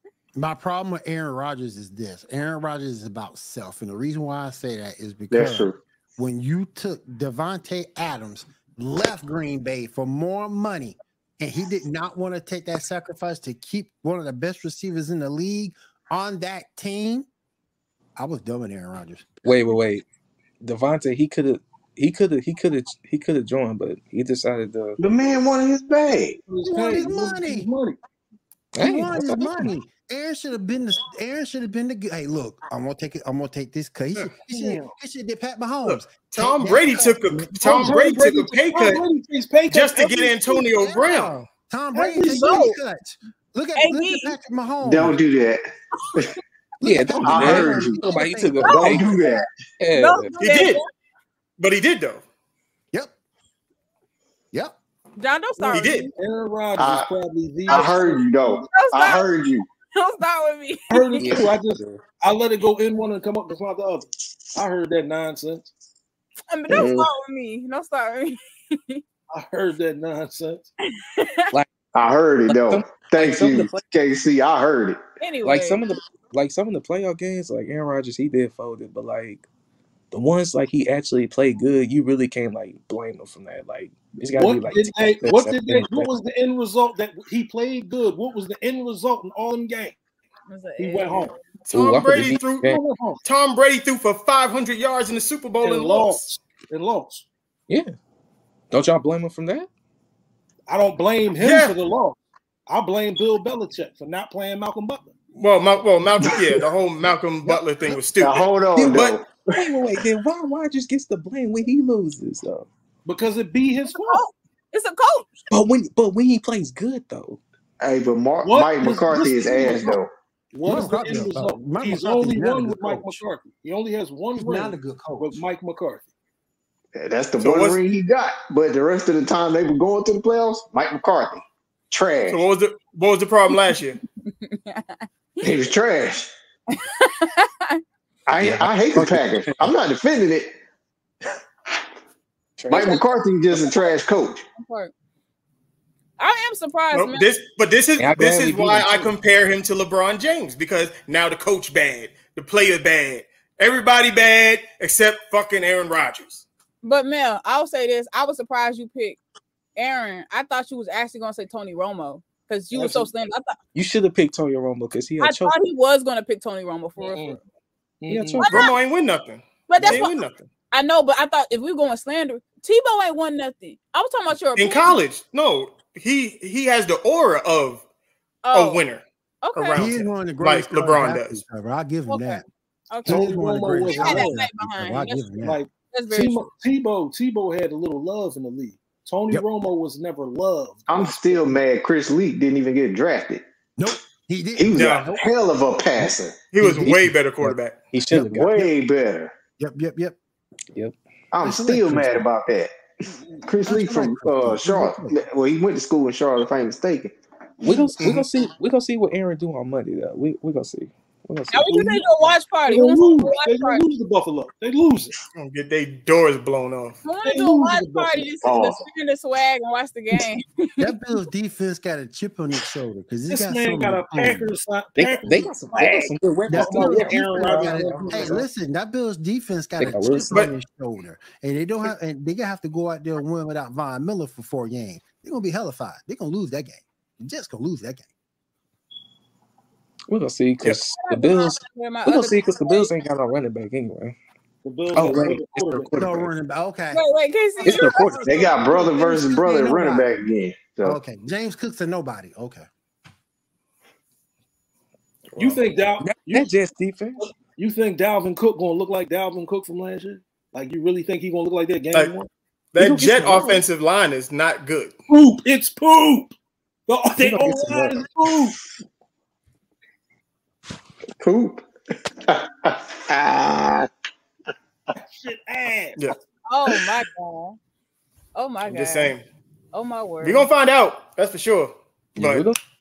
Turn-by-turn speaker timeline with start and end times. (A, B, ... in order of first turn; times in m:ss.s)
0:00.4-0:17.3 A
0:05.3-0:05.8 B
0:18.2-0:19.7 A
0:19.4-0:20.0 C
0:20.6-0:25.0 C
0:25.0-0:26.4 B
0:26.5-0:28.0 D
0:26.6-0:27.7 A
0:28.8-0:29.7 C
0:28.8-0:37.9 A
0:34.4-0:35.0 D
0:35.8-0:39.0 E
0:37.6-0:40.7 D
0:39.7-0:41.4 E
0:40.8-0:45.2 A
0:41.9-0:42.7 D
0:42.3-0:42.8 F
0:43.8-0:44.4 F
0:44.8-0:45.6 B
0:46.8-0:49.1 C
0:46.8-0:49.1 A
0:47.2-0:48.0 B
0:48.6-0:49.4 F
0:48.7-0:49.5 B
0:49.8-0:50.4 C
0:49.9-0:50.9 F
0:50.4-0:50.8 E
0:51.6-0:52.2 E
0:55.2-0:56.1 F
0:55.6-0:56.1 E
0:56.2-0:58.3 D
0:56.8-0:57.1 B
0:57.7-0:59.7 B
0:58.5-0:59.3 F
1:00.0-1:01.3 F
1:00.9-1:05.7 D
1:01.2-1:02.0 C
1:06.5-1:09.0 F
1:06.7-1:07.1 B
1:09.3-1:10.7 D
1:10.8-1:11.4 F
1:12.0-1:15.0 B
1:12.5-1:13.8 C
1:15.2-1:15.8 F
1:15.4-1:19.5 C
1:20.1-1:26.2 C
1:24.3-1:30.0 D
1:30.5-1:31.4 F
1:30.8-1:31.4 D
1:31.7-1:36.2 E
1:31.7-1:32.8 C
1:32.6-1:33.2 D
1:35.6-1:37.3 D
1:38.7-1:39.7 C
1:40.7-1:45.1 D
1:41.4-1:41.8 E
1:45.4-1:49.2 E
1:48.2-1:49.5 B
1:48.8-1:52.7 C
1:53.0-1:54.2 D
1:53.9-1:55.4 F
1:55.5-1:57.4 C
1:57.8-2:00.1 B
1:58.4-2:00.0 D
2:00.5-2:06.1 D
2:00.6-2:03.2 A
2:04.4-2:05.4 A
2:07.0-2:12.4 B
2:07.4-2:07.8 E
2:12.3-2:14.0 E
2:14.2-2:15.5 F
2:15.4-2:16.3 B
2:16.7-2:17.8 F
2:18.3-2:20.5 B
2:18.4-2:19.7 C
2:22.6-2:23.0 C
2:22.7-2:24.4 B
2:22.7-2:23.0 F
2:23.5-2:23.9 F
2:24.6-2:24.9 F
2:26.2-2:27.3 F
2:26.9-2:36.4 E
2:28.0-2:29.2 C
2:36.8-2:39.2 F
2:39.8-2:43.6 F
2:42.7-2:43.1 D
2:43.7-2:45.6 C
2:45.2-2:47.4 F
2:47.0-2:47.4 D
2:48.0-2:48.5 D
2:48.1-2:48.7 C
2:48.4-2:48.8 F
2:48.5-2:50.5 E
2:49.7-2:55.0 F
2:54.6-2:57.8 E
2:58.4-2:58.8 F
2:58.5-3:01.4 E
2:59.4-2:59.8 F
2:59.7-3:02.4 A
3:02.1-3:03.4 F
3:03.0-3:05.6 A
3:03.1-3:04.4 D
3:03.9-3:06.5 F
3:05.4-3:11.5 D
3:10.9-3:13.4 B
3:13.8-3:15.3 A
3:14.6-3:16.4 B
3:14.7-3:15.1 E
3:16.0-3:17.6 A
3:16.5-3:17.8 E
3:17.9-3:18.6 C
3:18.1-3:18.7 A
3:18.2-3:19.3 B
3:19.6-3:20.2 A
3:21.3-3:22.7 B
3:21.4-3:22.2 A
3:23.4-3:27.1 B
3:23.6-3:25.2 A
3:27.6-3:31.7 C
3:28.0-3:28.3 E
3:31.5-3:33.8 F
3:31.7-3:32.0 D
3:32.6-3:35.2 D
3:35.3-3:37.0 E
3:37.0-3:41.0 F
3:37.2-3:38.4 D
3:38.4-3:38.8 B
3:40.8-3:44.5 A
3:43.3-3:48.4 D
3:45.0-3:48.4 C
3:46.5-3:58.1 A
3:49.8-3:50.3 C
4:00.1-4:04.2 C
4:01.0-4:02.9 F
4:04.6-4:06.1 D
4:04.9-4:06.3 C
4:06.0-4:07.0 A
4:06.9-4:08.5 F
4:07.6-4:08.3 C
4:08.2-4:11.0 B
4:08.7-4:10.1 A
4:10.8-4:12.7 A
4:15.3-4:17.2 C
4:15.4-4:16.5 D
4:17.2-4:22.3 D
4:22.7-4:24.9 E
4:22.8-4:23.6 C
4:25.1-4:26.3 D
4:26.9-4:28.6 D
4:27.2-4:28.0 C
4:31.2-4:31.6 B
4:32.3-4:33.9 B
4:35.0-4:36.0 D
4:36.5-4:37.6 F
4:38.4-4:39.2 F
4:38.6-4:39.2 E
4:39.7-4:40.5 F
4:40.2-4:42.5 E
4:42.2-4:42.6 C